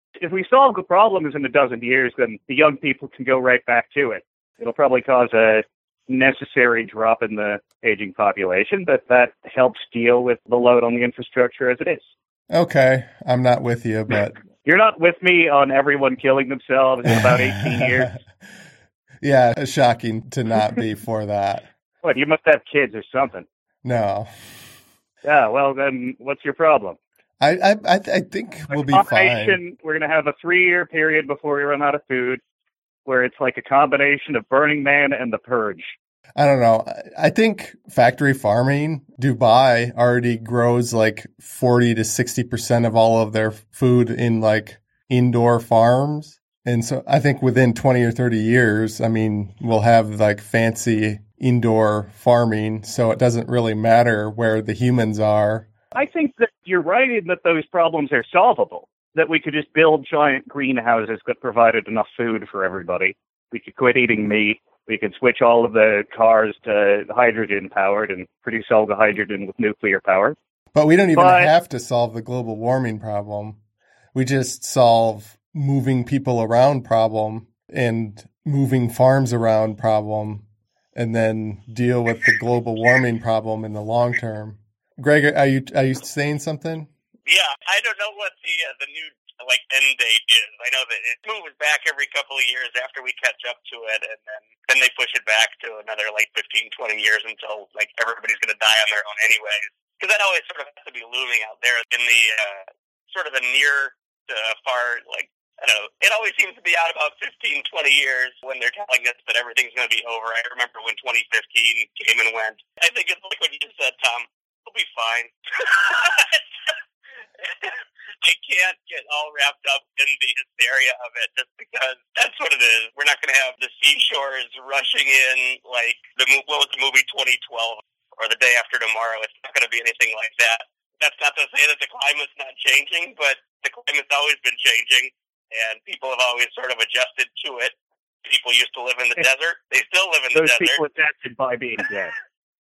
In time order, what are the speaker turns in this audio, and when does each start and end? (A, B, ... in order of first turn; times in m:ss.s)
0:00.2-0:12.1 A
0:12.5-0:14.4 B
0:14.6-0:18.1 A
0:17.1-0:18.2 B
0:19.2-0:21.7 B
0:22.0-0:23.5 A
0:23.8-0:24.3 B
0:25.2-0:27.0 A
0:27.4-0:29.6 B
0:28.7-0:32.4 A
0:33.1-0:36.0 A
0:36.4-0:55.7 B
0:56.0-1:10.4 A
1:10.7-1:13.6 B
1:11.2-1:11.5 A
1:14.1-1:26.9 B
1:27.3-1:56.4 C
1:57.4-2:17.7 C
2:18.2-2:20.8 C
2:20.3-2:22.2 A